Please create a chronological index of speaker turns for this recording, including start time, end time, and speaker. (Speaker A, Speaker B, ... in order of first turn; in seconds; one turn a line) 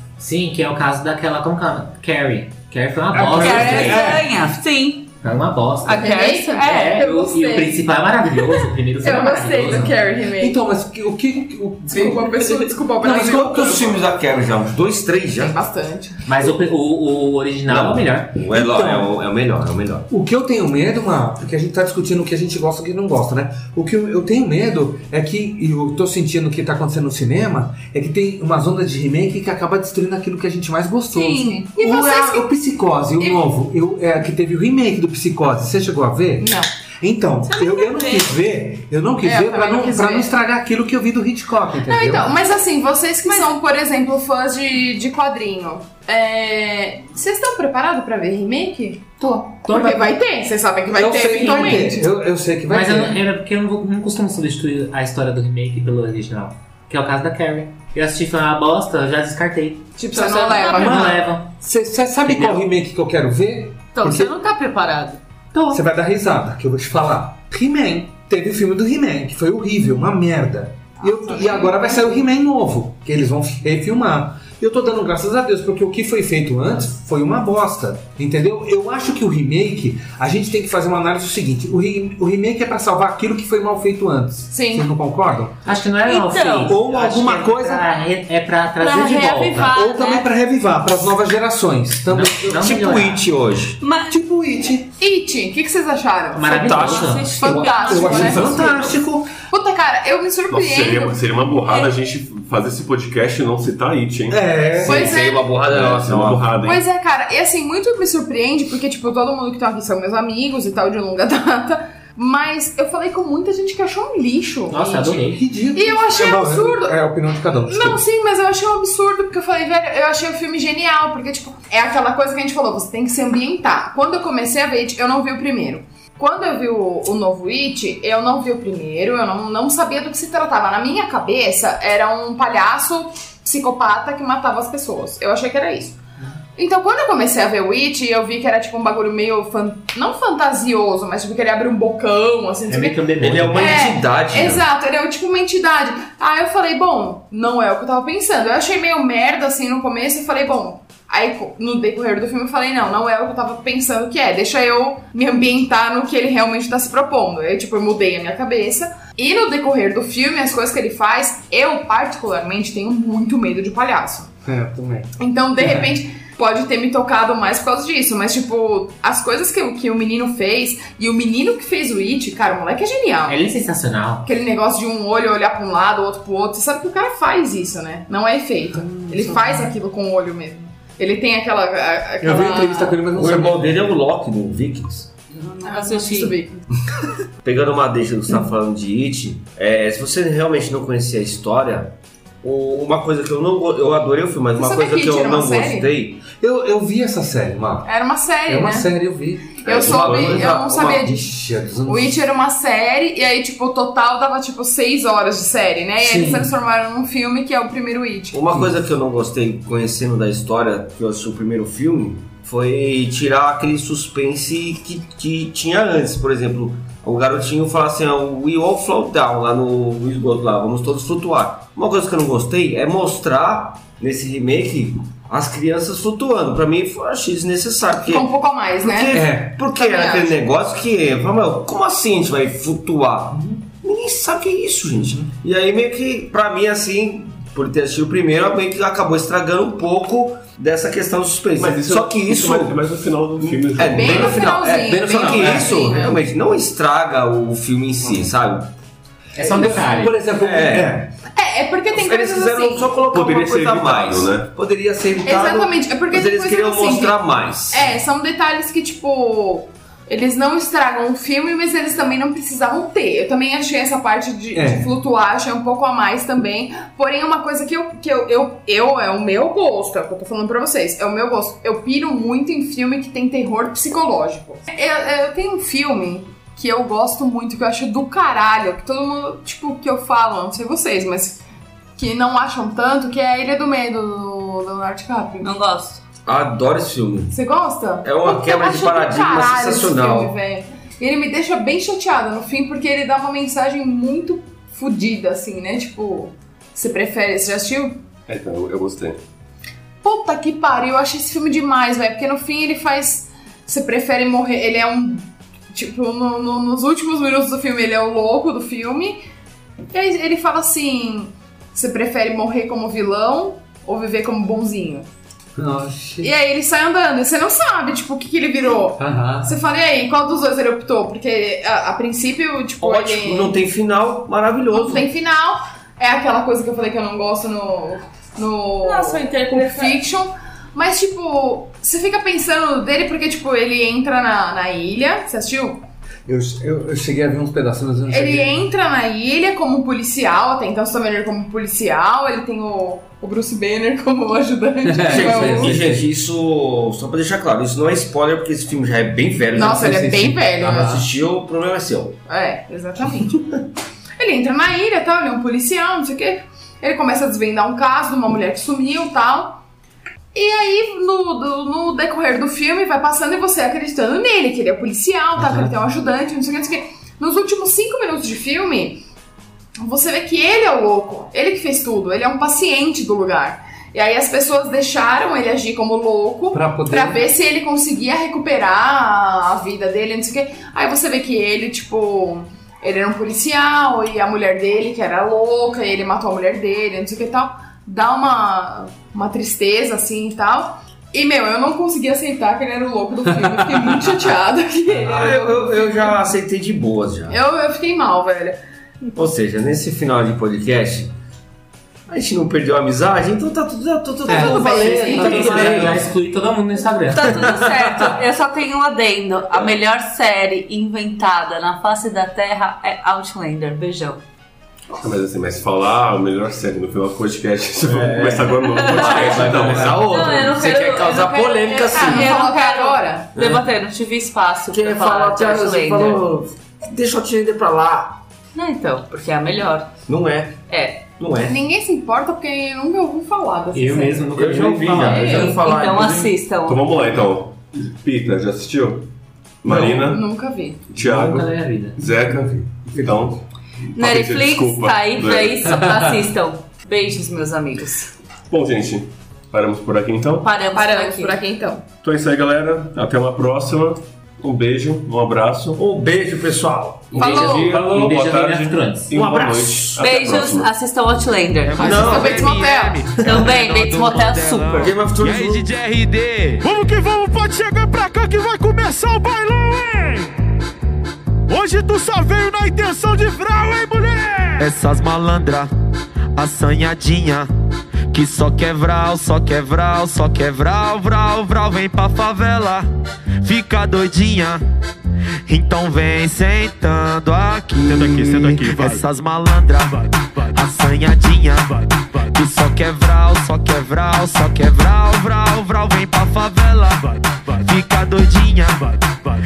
Speaker A: 0.2-4.1
Speaker B: 3.1-4.3
Speaker C: 3.3-5.1
Speaker A: 5.2-9.9
Speaker C: 5.8-7.1
Speaker D: 5.9-7.8
Speaker D: 9.0-10.6
Speaker B: 10.4-12.4
Speaker D: 11.9-13.9
Speaker E: 13.0-15.6
Speaker B: 13.0-13.5
Speaker D: 15.3-16.2
Speaker A: 16.2-18.4
Speaker E: 17.7-20.1
Speaker B: 18.5-19.1
Speaker B: 20.1-42.3
Speaker D: 31.1-32.5
Speaker D: 36.4-36.7
Speaker C: 37.5-38.4
Speaker D: 39.2-40.3
Speaker D: 41.9-49.1
Speaker A: 49.2-50.1
Speaker D: 49.6-52.0
Speaker B: 50.9-53.2
Speaker A: 51.4-51.8
Speaker A: 52.7-61.5
Speaker D: 60.0-61.1
Speaker C: 60.3-61.0
Speaker B: 60.5-64.3
Speaker A: 62.3-62.6
Speaker C: 63.9-65.2
Speaker A: 65.5-65.8
Speaker B: 65.7-85.6
Speaker D: 71.0-71.9
Speaker D: 84.5-84.9
Speaker A: 85.6-89.7
Speaker C: 86.0-86.7
Speaker B: 86.6-87.9
Speaker C: 88.8-90.3
Speaker B: 89.6-92.6
Speaker A: 92.1-93.2
Speaker E: 92.5-93.8
Speaker C: 93.8-94.2
Speaker B: 94.1-94.9
Speaker D: 95.0-98.9
Speaker A: 96.3-97.3
Speaker E: 96.5-97.3
Speaker C: 96.7-98.7
Speaker B: 97.4-99.3
Speaker D: 99.5-101.3
Speaker F: 100.5-104.9
Speaker B: 104.3-105.1
Speaker E: 104.8-106.6
Speaker D: 104.8-105.5
Speaker F: 105.7-106.8
Speaker D: 106.6-117.0
Speaker A: 114.7-115.4
Speaker B: 115.3-118.0
Speaker D: 117.7-136.0
Speaker D: 136.6-164.3
Speaker A: 142.7-143.8
Speaker E: 143.2-144.6
Speaker B: 164.4-165.8
Speaker D: 165.2-173.4
Speaker A: 173.2-174.3
Speaker D: 174.2-183.0
Speaker B: 178.7-179.7
Speaker B: 182.2-183.8
Speaker E: 183.1-185.1
Speaker C: 185.3-186.4
Speaker D: 185.6-186.5
Speaker E: 187.4-196.2
Speaker D: 194.5-195.9
Speaker B: 196.3-197.9
Speaker D: 197.8-198.9
Speaker B: 198.4-199.6
Speaker E: 199.6-201.1
Speaker D: 199.7-201.3
Speaker F: 199.7-200.4
Speaker B: 200.2-202.2
Speaker D: 201.8-208.4
Speaker B: 206.0-206.5
Speaker E: 208.3-228.3
Speaker D: 228.0-230.4
Speaker E: 228.8-248.7
Speaker B: 229.1-229.6
Speaker B: 233.3-233.6
Speaker F: 241.6-244.4
Speaker D: 243.8-246.2
Speaker B: 244.9-246.0
Speaker B: 249.3-251.1
Speaker A: 249.3-250.2
Speaker E: 250.3-251.0
Speaker D: 251.3-253.0
Speaker E: 251.9-257.9
Speaker F: 253.1-254.5
Speaker D: 255.2-281.4
Speaker B: 264.5-264.9
Speaker D: 282.0-285.5
Speaker C: 285.4-286.0
Speaker E: 286.2-287.3
Speaker D: 287.3-298.0
Speaker E: 288.0-290.3
Speaker F: 298.3-299.2
Speaker D: 300.0-309.2
Speaker D: 309.9-315.1
Speaker B: 315.6-316.3
Speaker D: 316.2-323.6
Speaker B: 319.0-319.5
Speaker E: 322.8-325.1
Speaker D: 324.7-335.8
Speaker C: 328.8-330.0
Speaker B: 336.3-338.7
Speaker D: 338.1-345.8
Speaker B: 344.8-346.0
Speaker E: 345.1-350.0
Speaker D: 349.5-351.1
Speaker B: 349.7-350.5
Speaker E: 350.5-352.2
Speaker D: 352.3-353.4
Speaker D: 354.2-359.6
Speaker D: 360.3-369.0
Speaker B: 365.4-365.7
Speaker D: 369.8-396.2
Speaker B: 376.5-377.2
Speaker B: 393.5-394.0
Speaker E: 395.0-397.4
Speaker D: 397.3-398.6
Speaker E: 399.1-401.1
Speaker E: 402.1-406.1
Speaker D: 404.3-405.9
Speaker B: 404.3-405.6
Speaker A: 404.9-407.4
Speaker C: 407.1-414.2
Speaker F: 414.9-420.1
Speaker E: 417.8-422.3
Speaker C: 418.6-426.3
Speaker D: 421.9-423.3
Speaker E: 423.4-423.6
Speaker E: 424.7-428.2
Speaker C: 428.5-429.9
Speaker E: 430.1-430.6
Speaker C: 430.7-431.0
Speaker E: 431.2-431.6
Speaker D: 431.4-434.3
Speaker A: 433.7-435.6
Speaker E: 434.3-436.4
Speaker C: 435.0-436.8
Speaker F: 436.6-439.1
Speaker F: 439.6-440.2
Speaker D: 440.0-440.8
Speaker F: 440.9-443.4
Speaker A: 440.9-442.0
Speaker B: 442.1-443.2
Speaker F: 443.9-445.6
Speaker C: 443.9-448.1
Speaker B: 445.8-446.1
Speaker F: 448.5-450.5
Speaker C: 450.4-451.4
Speaker D: 450.7-451.8
Speaker F: 452.0-455.8
Speaker E: 455.8-458.1
Speaker A: 457.1-459.1
Speaker D: 457.1-457.8
Speaker F: 457.7-460.7
Speaker E: 459.1-460.1
Speaker C: 460.0-462.1
Speaker G: 461.6-466.7
Speaker E: 461.8-462.5
Speaker D: 461.8-463.1
Speaker C: 463.2-464.9
Speaker E: 464.7-465.7
Speaker H: 466.6-470.3
Speaker H: 471.5-474.7
Speaker G: 474.6-475.7
Speaker G: 476.4-477.5
Speaker G: 478.1-482.9
Speaker G: 483.4-484.6
Speaker G: 485.5-490.0
Speaker H: 487.9-489.0
Speaker G: 490.5-491.8
Speaker G: 492.3-498.9